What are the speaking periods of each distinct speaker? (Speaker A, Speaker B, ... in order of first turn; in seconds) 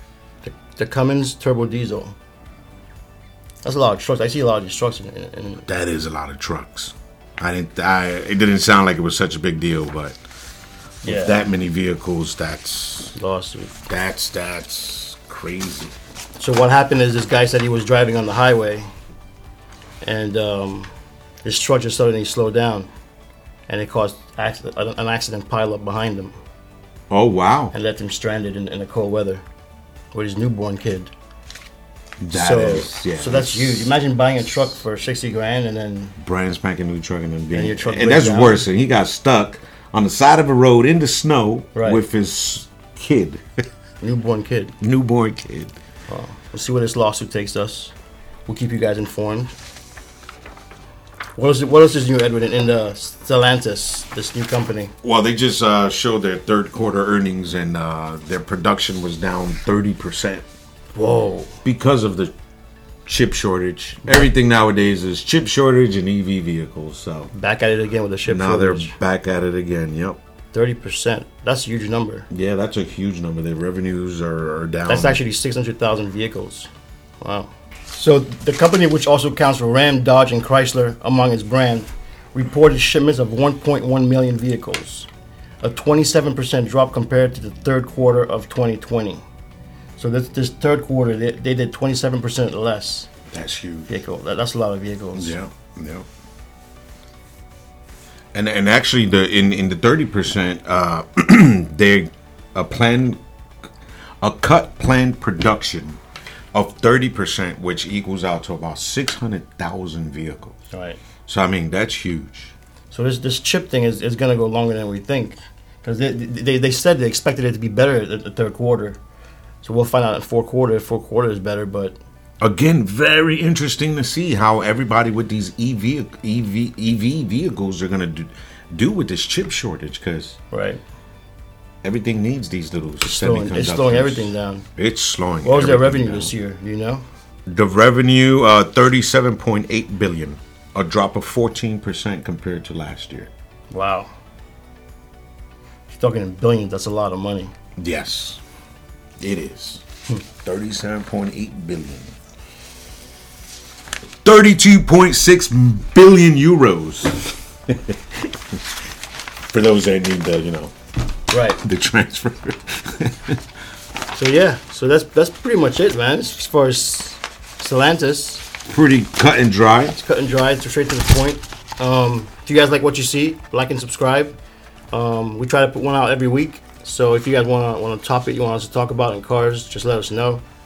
Speaker A: 0.4-2.1, 3.6-5.7, 11.0-11.3, 13.2-13.7, 16.4-18.9, 20.0-20.9, 21.4-22.9, 23.7-26.3, 27.7-29.4, 30.1-31.1, 32.3-36.1, 37.5-38.6, 41.7-42.0, 44.0-44.7, 46.1-47.9, 48.5-49.5, 51.4-54.9, 60.9-61.6, 67.3-68.9, 70.5-72.3, 74.9-76.7, 77.2-85.1, 85.6-89.2, 90.0-93.1, 93.9-95.3, 110.7-111.0, 112.9-119.0, 119.6-122.0, 130.5-130.8, 133.0-134.7, 135.4-137.0, 143.7-144.1, 145.9-147.5, 161.3-161.6, 164.1-168.4, 169.9-174.4, 174.9-180.4
Speaker B: 5.7-10.2, 11.0-13.2, 13.9-15.9, 27.1-27.7, 32.2-33.9, 36.2-43.4, 44.8-45.8, 55.0-60.4, 61.6-62.3, 63.1-67.3, 68.2-70.2, 72.3-75.2, 93.3-93.9, 95.2-96.1, 98.3-103.2, 104.2-106.0, 106.5-110.5, 111.2-112.5, 122.4-130.4, 131.8-136.3, 137.5-143.3, 147.8-148.4, 149.2-149.8, 150.4-152.1, 154.2-158.6, 159.5-160.7, 161.6-163.4, 168.7-169.9